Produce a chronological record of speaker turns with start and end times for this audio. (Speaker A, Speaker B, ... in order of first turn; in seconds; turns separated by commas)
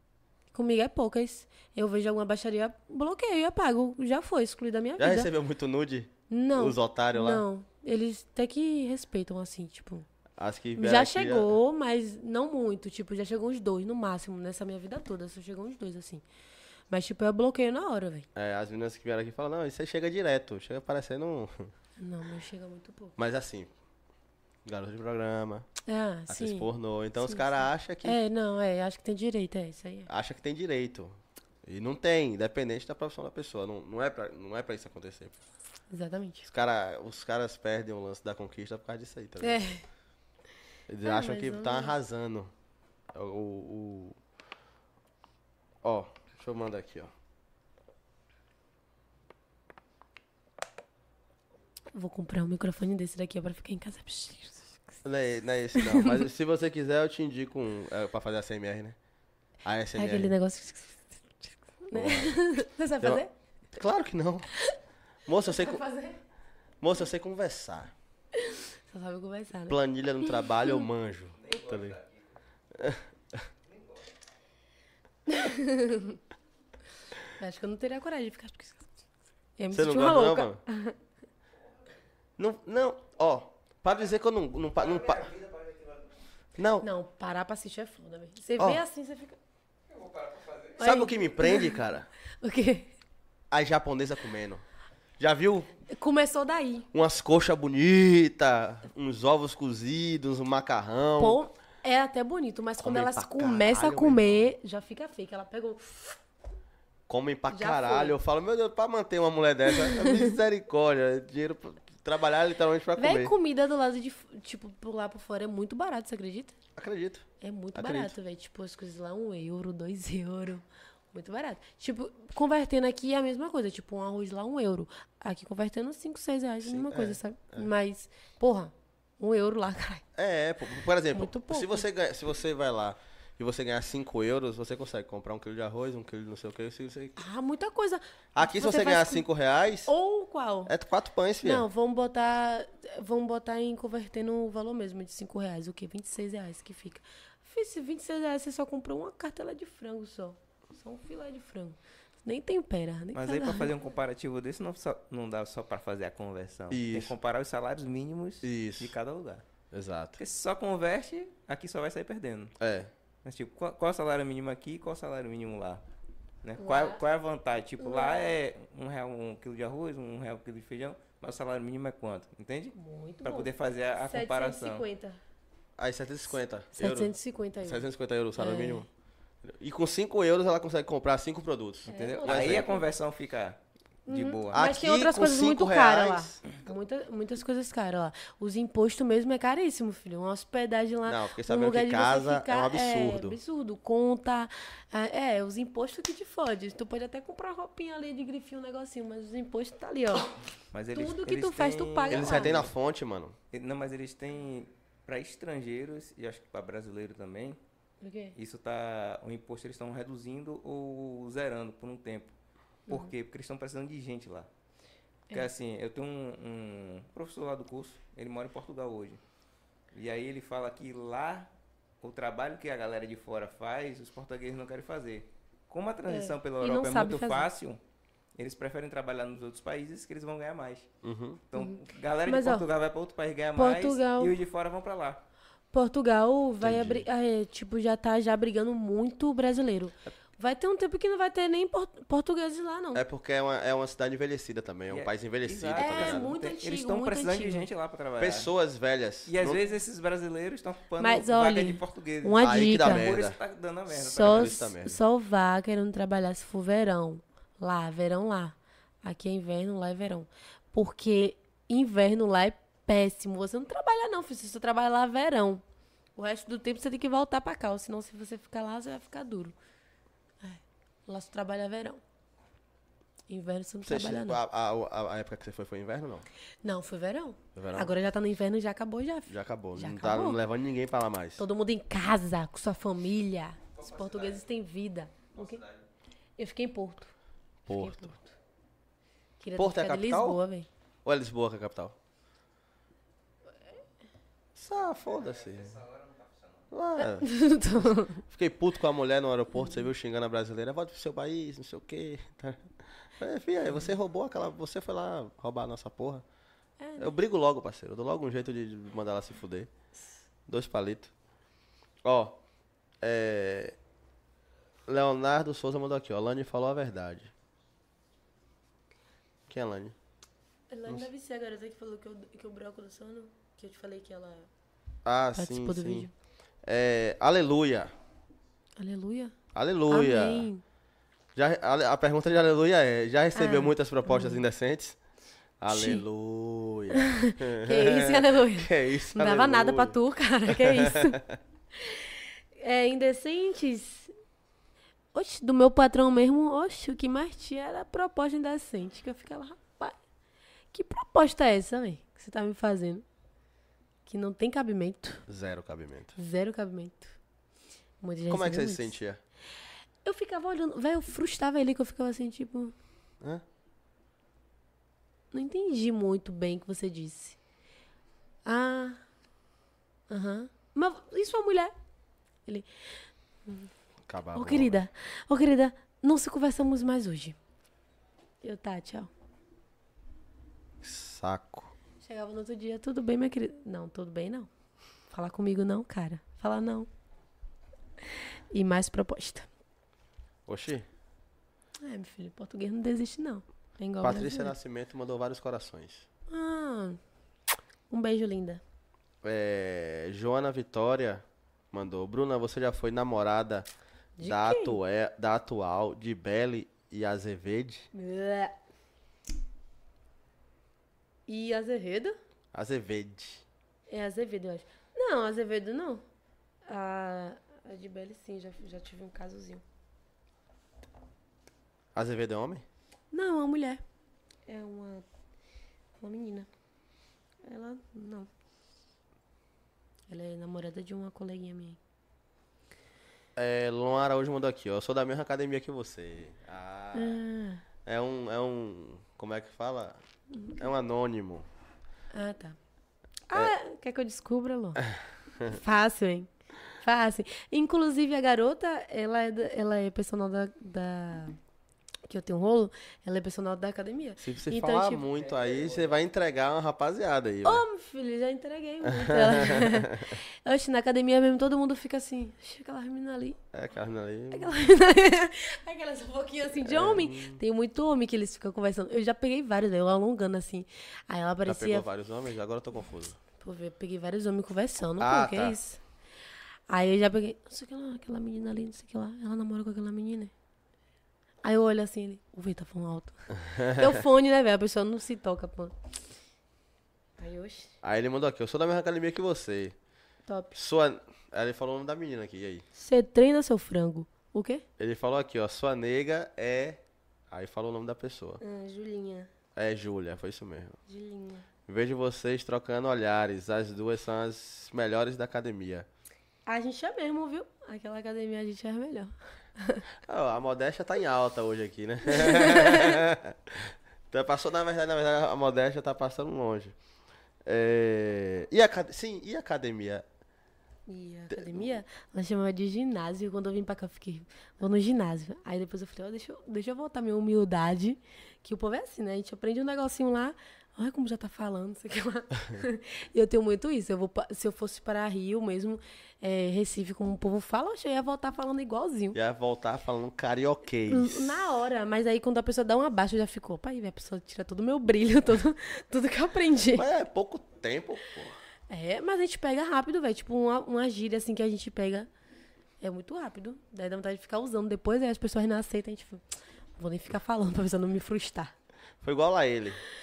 Speaker A: 0.5-5.3, Speaker B: 5.0-7.4, Speaker A: 6.3-10.1, Speaker B: 10.4-11.6, Speaker A: 10.8-16.2, Speaker A: 16.9-18.3, Speaker B: 18.3-21.7, Speaker A: 22.0-23.1, Speaker B: 23.2-23.7, Speaker B: 24.6-25.7, Speaker A: 25.9-30.1, Speaker B: 26.3-28.2, Speaker B: 30.1-35.4, Speaker A: 35.9-36.5, Speaker B: 36.5-39.6, Speaker A: 39.4-39.8, Speaker B: 40.9-42.5, Speaker A: 41.0-42.0, Speaker B: 43.1-44.2, Speaker B: 45.8-47.1, Speaker A: 51.9-54.9, Speaker B: 55.0-59.0, Speaker A: 55.7-56.2, Speaker B: 59.6-60.3, Speaker A: 59.9-63.3, Speaker B: 61.9-62.4, Speaker B: 63.7-64.5, Speaker B: 65.2-65.8, Speaker A: 65.4-66.2, Speaker B: 66.8-67.9, Speaker A: 68.3-70.8, Speaker B: 69.7-72.0, Speaker C: 71.4-72.2, Speaker B: 72.7-73.5, Speaker C: 73.7-74.0, Speaker A: 75.3-76.2, Speaker A: 77.3-78.9, Speaker A: 79.6-81.0, Speaker B: 79.7-80.6, Speaker B: 82.4-85.3, Speaker C: 84.8-86.1, Speaker B: 86.6-86.8, Speaker A: 86.8-89.4, Speaker B: 88.6-88.8, Speaker C: 89.9-90.8, Speaker A: 90.8-91.8, Speaker B: 90.8-92.1, Speaker A: 92.4-92.9, Speaker B: 93.5-94.6, Speaker B: 95.2-95.7, Speaker A: 95.9-96.9, Speaker B: 96.9-101.4, Speaker A: 101.2-106.2, Speaker B: 102.8-104.5, Speaker B: 107.1-113.3, Speaker A: 107.5-108.2, Speaker A: 109.7-110.3, Speaker A: 113.0-116.5, Speaker B: 116.8-118.1, Speaker A: 117.4-130.0, Speaker B: 126.6-127.7, Speaker B: 130.1-137.2, Speaker A: 131.1-131.8, Speaker A: 137.2-139.2, Speaker B: 138.3-139.9, Speaker A: 139.8-140.7, Speaker B: 140.7-141.7, Speaker A: 141.4-153.7, Speaker C: 153.1-159.4, Speaker B: 156.7-157.1, Speaker B: 158.4-158.9, Speaker B: 159.7-160.2, Speaker C: 160.2-162.5, Speaker B: 162.6-162.9, Speaker C: 163.2-165.8, Speaker C: 166.4-174.8, Speaker A: 166.6-167.0, Speaker A: 167.8-168.4, Speaker A: 172.7-175.2, Speaker B: 175.8-178.9, Speaker A: 176.8-178.9, Speaker B: 179.4-182.7, Speaker C: 181.9-184.6, Speaker A: 181.9-182.9, Speaker A: 184.1-200.3, Speaker B: 184.5-186.4, Speaker B: 191.1-193.4, Speaker C: 200.7-202.7, Speaker A: 200.9-202.6, Speaker B: 202.1-203.3, Speaker C: 203.5-207.6, Speaker A: 208.0-208.3, Speaker C: 208.3-212.3, Speaker C: 212.9-214.5, Speaker C: 215.3-219.2, Speaker C: 219.9-227.8, Speaker A: 226.1-227.5, Speaker C: 228.4-230.9, Speaker B: 231.0-231.4, Speaker C: 231.5-235.2, Speaker A: 231.6-232.7, Speaker A: 233.6-234.3, Speaker A: 235.7-243.0, Speaker B: 236.6-237.1, Speaker B: 242.9-246.3, Speaker C: 244.9-248.5, Speaker A: 245.8-247.7, Speaker B: 248.2-249.6, Speaker C: 249.3-254.6, Speaker A: 251.0-253.1, Speaker B: 252.4-253.4, Speaker A: 253.9-265.6, Speaker B: 254.1-255.0, Speaker A: 266.1-269.5, Speaker A: 270.4-272.0, Speaker A: 273.3-274.4, Speaker B: 273.8-276.2, Speaker A: 276.6-280.4, Speaker B: 277.5-277.9, Speaker B: 279.3-281.4, Speaker A: 281.4-285.6, Speaker C: 283.8-284.4, Speaker C: 285.4-285.8, Speaker A: 286.4-287.1, Speaker B: 287.6-288.1, Speaker A: 287.7-288.3, Speaker A: 289.4-290.7, Speaker B: 289.6-290.4, Speaker B: 291.0-291.9, Speaker B: 294.5-295.8, Speaker C: 295.1-296.6, Speaker B: 296.7-306.2, Speaker A: 297.0-298.2, Speaker A: 306.8-307.1, Speaker B: 307.0-309.7, Speaker B: 310.5-311.1, Speaker B: 312.0-312.4, Speaker B: 313.0-313.8, Speaker B: 314.9-317.3, Speaker B: 319.5-319.9, Speaker A: 320.7-324.5, Speaker B: 325.0-326.1, Speaker A: 325.4-326.1, Speaker B: 326.6-327.9, Speaker A: 328.8-329.3, Speaker B: 329.5-330.5, Speaker A: 329.9-330.6, Speaker B: 331.3-335.0, Speaker A: 333.3-334.4, Speaker B: 335.6-341.4, Speaker A: 335.7-336.0, Speaker A: 336.9-341.2, Speaker A: 341.8-344.1, Speaker A: 345.1-349.9, Speaker A: 350.7-353.0, Speaker A: 354.1-355.2, Speaker B: 355.3-356.1, Speaker A: 356.1-357.2, Speaker A: 358.0-359.0, Speaker B: 358.3-359.2, Speaker A: 360.0-362.7, Speaker A: 365.3-367.4, Speaker A: 368.4-369.0, Speaker A: 370.1-371.7, Speaker A: 373.4-373.7, Speaker B: 374.1-374.8, Speaker A: 374.3-377.4, Speaker A: 378.4-379.1, Speaker B: 380.8-381.7, Speaker A: 382.0-384.5, Speaker A: 385.1-386.9, Speaker A: 388.1-389.5, Speaker B: 390.5-390.9, Speaker A: 391.8-394.5, Speaker B: 394.0-396.1, Speaker A: 396.3-397.0, Speaker A: 397.9-398.6, Speaker B: 399.2-403.7, Speaker A: 404.2-404.8, Speaker B: 404.2-407.9, Speaker A: 407.9-408.6, Speaker A: 411.3-412.1, Speaker B: 412.5-413.4, Speaker A: 413.9-416.0, Speaker A: 416.7-419.6, Speaker B: 421.9-422.6, Speaker A: 423.1-423.8, Speaker A: 424.5-425.0, Speaker A: 426.0-426.5, Speaker A: 427.4-428.3, Speaker A: 430.1-431.8, Speaker B: 433.4-437.2, Speaker A: 436.9-437.6, Speaker B: 437.8-441.4, Speaker A: 442.1-442.6, Speaker A: 443.3-444.8, Speaker A: 445.5-446.3, Speaker A: 446.8-451.4, Speaker A: 452.1-455.0, Speaker B: 454.2-457.6, Speaker C: 455.1-455.9, Speaker A: 457.4-463.4, Speaker B: 458.8-460.1, Speaker B: 463.5-464.6, Speaker A: 464.3-471.9, Speaker B: 466.6-467.4, Speaker B: 471.4-473.2, Speaker A: 473.4-475.8, Speaker B: 475.0-475.6, Speaker A: 476.7-480.3, Speaker A: 481.4-485.7, Speaker B: 483.4-484.0, Speaker A: 487.2-487.7, Speaker B: 487.8-489.7, Speaker A: 490.3-490.6, Speaker B: 490.5-492.6, Speaker A: 492.7-494.6, Speaker B: 494.8-498.4, Speaker A: 498.4-499.3, Speaker B: 499.5-500.8, Speaker A: 500.9-501.4, Speaker B: 501.7-505.9, Speaker A: 506.5-509.8, Speaker B: 510.1-516.7, Speaker A: 512.0-513.0, Speaker B: 517.4-520.0, Speaker A: 520.9-539.2, Speaker B: 521.3-521.7, Speaker B: 539.1-541.4, Speaker A: 540.9-546.9, Speaker B: 546.7-548.4, Speaker A: 548.7-552.1, Speaker A: 552.8-556.2, Speaker A: 556.8-558.5, Speaker B: 559.0-559.8